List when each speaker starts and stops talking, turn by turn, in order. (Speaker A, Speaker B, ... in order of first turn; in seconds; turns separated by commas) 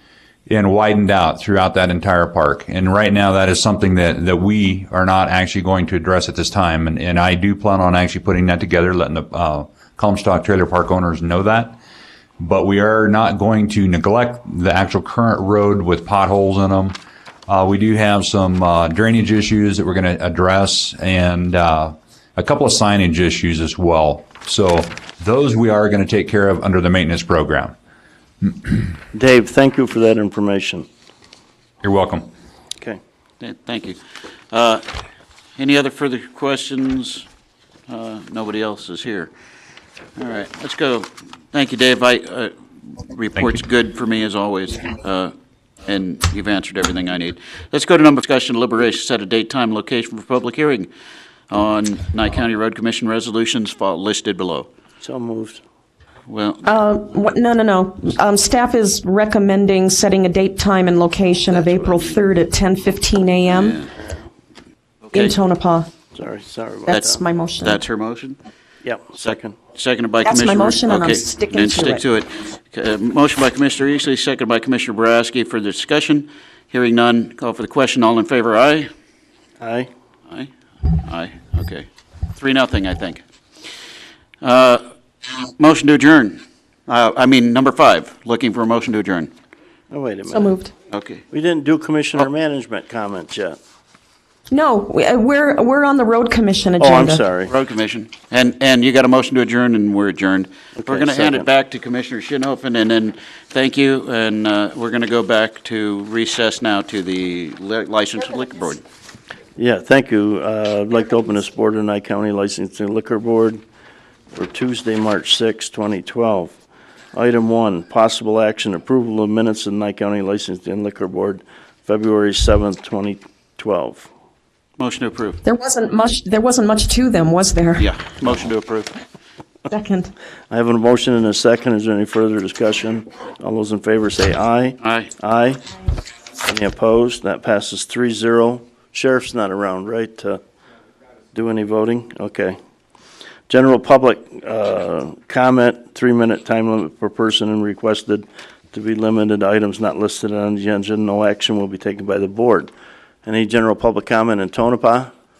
Speaker A: 0.5-11.8, Speaker A: 12.4-27.7, Speaker B: 29.1-30.9, Speaker A: 31.8-32.3, Speaker C: 33.4-34.0, Speaker C: 34.5-34.8, Speaker C: 35.6-37.2, Speaker C: 37.9-39.3, Speaker C: 40.1-45.3, Speaker C: 45.9-50.9, Speaker C: 51.5-54.7, Speaker B: 55.0-55.6, Speaker C: 56.3-56.7, Speaker D: 56.6-63.8, Speaker B: 61.6-61.9, Speaker C: 63.5-63.9, Speaker C: 65.0-65.3, Speaker D: 65.1-65.9, Speaker B: 66.1-67.2, Speaker D: 66.8-67.8, Speaker C: 67.6-68.4, Speaker B: 68.8-69.6, Speaker C: 69.1-78.9, Speaker D: 70.2-72.0, Speaker B: 79.6-79.9, Speaker C: 80.3-83.2, Speaker C: 84.4-84.8, Speaker C: 85.4-89.3, Speaker B: 89.9-90.5, Speaker D: 90.3-90.7, Speaker C: 90.9-91.2, Speaker B: 91.3-93.6, Speaker D: 94.5-97.2, Speaker B: 96.8-97.5, Speaker C: 97.5-108.8, Speaker B: 100.8-101.5, Speaker B: 109.6-113.6, Speaker B: 114.3-116.5, Speaker B: 117.1-124.1, Speaker C: 124.8-125.4, Speaker D: 125.4-127.9, Speaker C: 127.8-129.0, Speaker D: 129.7-130.1, Speaker B: 130.5-135.6, Speaker C: 134.8-135.1, Speaker B: 136.4-140.4, Speaker B: 141.3-142.6, Speaker B: 143.5-152.7, Speaker B: 153.2-155.1